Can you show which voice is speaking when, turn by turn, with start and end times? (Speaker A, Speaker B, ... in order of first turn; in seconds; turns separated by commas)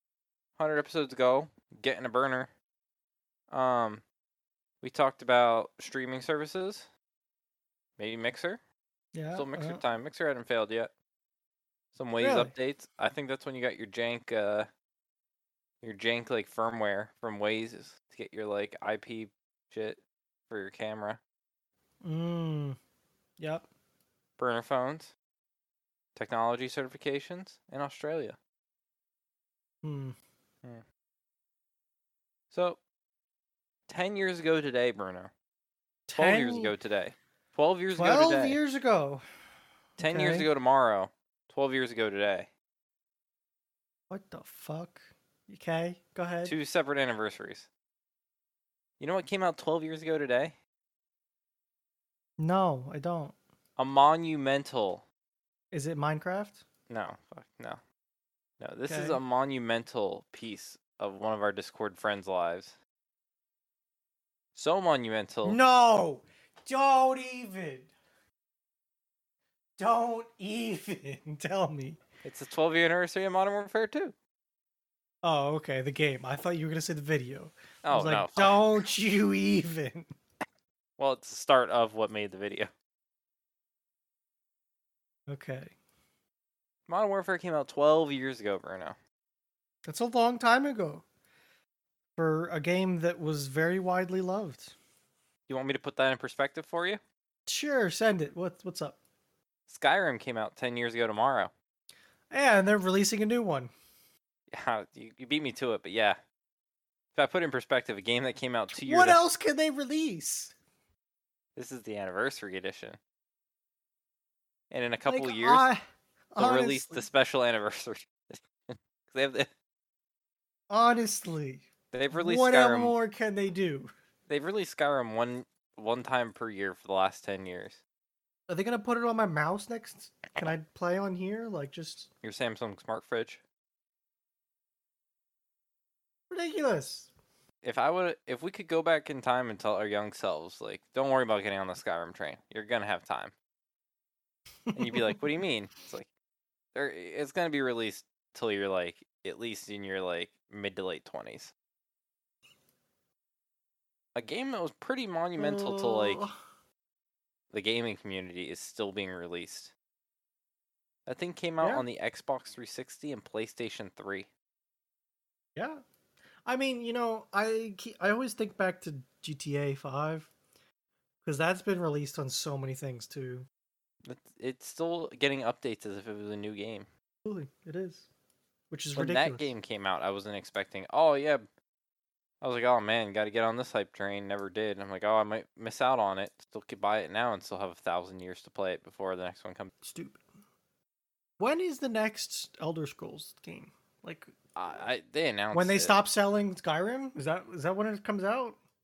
Speaker A: 0.6-2.5, Speaker A: 3.5-4.0, Speaker A: 4.8-6.9, Speaker A: 8.0-8.6, Speaker B: 9.1-9.8, Speaker A: 9.3-10.9, Speaker A: 11.9-14.7, Speaker B: 12.2-12.5, Speaker A: 15.8-21.2, Speaker B: 22.0-22.8, Speaker B: 23.4-23.7, Speaker A: 24.4-25.1, Speaker A: 26.1-28.4, Speaker B: 29.8-30.1, Speaker A: 32.5-32.8, Speaker A: 33.9-35.3, Speaker B: 36.1-36.7, Speaker A: 36.1-38.6, Speaker B: 38.0-39.2, Speaker B: 40.0-40.5, Speaker A: 40.0-42.5, Speaker B: 44.1-46.5, Speaker A: 46.4-47.7, Speaker A: 49.0-50.6, Speaker B: 52.4-53.4, Speaker A: 53.8-55.0, Speaker B: 55.7-56.6, Speaker A: 56.9-57.8, Speaker A: 58.6-62.8, Speaker B: 58.9-59.2, Speaker A: 64.5-65.6, Speaker B: 65.4-67.9, Speaker B: 69.8-72.0, Speaker A: 72.2-74.2, Speaker B: 75.2-80.1, Speaker A: 77.8-78.8, Speaker A: 81.0-82.7, Speaker B: 85.3-85.7, Speaker A: 86.9-89.0, Speaker B: 89.8-91.0, Speaker B: 92.2-94.7, Speaker A: 95.5-97.0, Speaker B: 97.5-99.0, Speaker A: 99.7-101.5, Speaker B: 102.3-103.7, Speaker A: 104.5-106.2, Speaker A: 107.1-109.2, Speaker B: 108.7-110.5, Speaker A: 111.5-113.0, Speaker A: 114.7-115.7, Speaker B: 115.1-115.8, Speaker B: 116.3-117.0, Speaker A: 116.4-119.5, Speaker B: 120.7-123.9, Speaker A: 121.9-123.0, Speaker A: 124.3-127.8, Speaker B: 128.5-132.1, Speaker A: 132.2-133.4, Speaker B: 136.3-137.1, Speaker A: 137.6-143.3, Speaker A: 144.7-146.1, Speaker B: 144.8-145.2, Speaker A: 146.7-151.5, Speaker A: 154.1-156.2, Speaker B: 155.4-156.3, Speaker A: 157.5-159.7, Speaker A: 161.1-164.3, Speaker B: 165.6-165.8, Speaker B: 166.4-170.3, Speaker B: 171.2-173.5, Speaker A: 174.0-176.9, Speaker B: 177.2-178.1, Speaker B: 178.7-179.5, Speaker A: 178.9-181.4, Speaker A: 182.4-189.7, Speaker B: 189.8-190.2, Speaker B: 191.4-194.3, Speaker A: 194.5-195.9, Speaker B: 195.5-198.6